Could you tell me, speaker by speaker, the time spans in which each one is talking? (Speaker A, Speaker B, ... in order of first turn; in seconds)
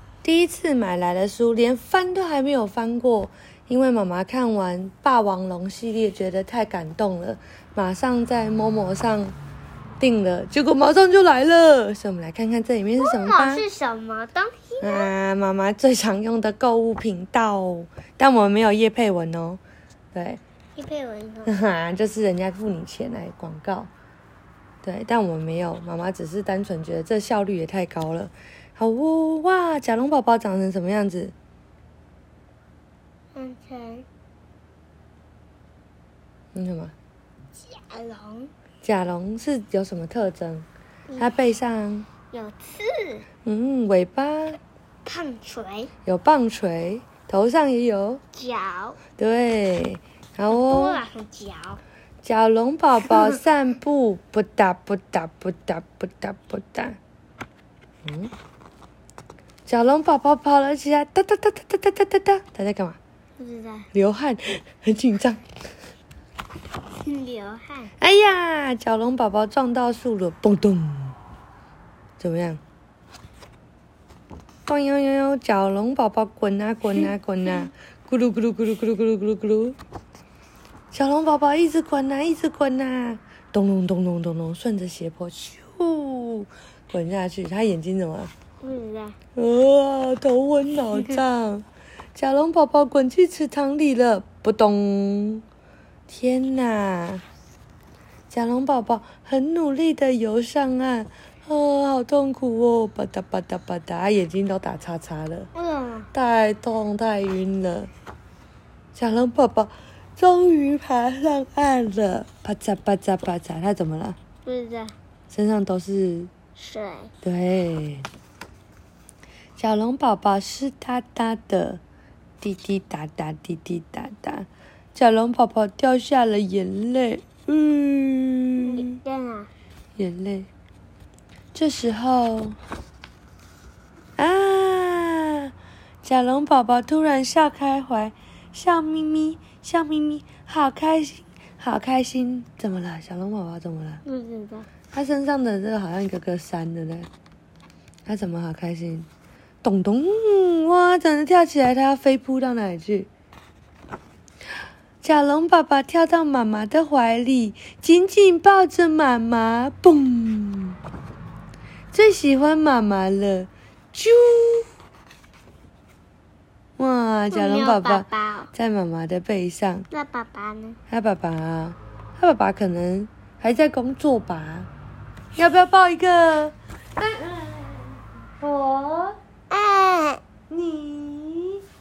Speaker A: 0.2-9.3, 10.0-13.6, 14.8-19.6, 20.1-20.4, 21.5-23.9, 24.8-31.3, 36.5-36.9, 38.8-40.7, 41.2-42.1, 43.5-44.6, 46.1-48.2, 49.2-51.0, 52.2-57.0, 58.0-58.3, 59.7-63.0, 63.9-65.4, 68.0-71.2, 72.2-72.6, 74.7-79.8, 80.9-88.3, 89.4-95.4, 96.1-97.2, 98.3-105.5, 106.1-107.9, 108.9-114.2, 115.3-116.3, 117.2-118.1, 119.6-121.8, 122.4-129.0, 130.0-130.5, 131.5-132.6, 134.2-135.5, 136.0-144.0, 144.9-147.1, 148.1-149.1, 149.6-153.1, 155.0-160.8, 161.9-164.7, 166.8-169.9, 170.9-174.7, 175.3-179.2, 180.5-181.6
Speaker B: 13.0-15.1, 20.8-21.6, 33.4-34.1, 37.5-38.5, 41.1-41.3, 42.3-43.2, 45.0-45.9, 48.3-49.0, 50.5-51.8, 63.4-63.9, 67.0-67.9, 88.6-89.2, 105.5-106.1, 114.5-115.0, 116.6-117.1, 128.6-129.5, 144.1-144.7, 167.3-168.5, 169.9-170.8, 179.5-180.2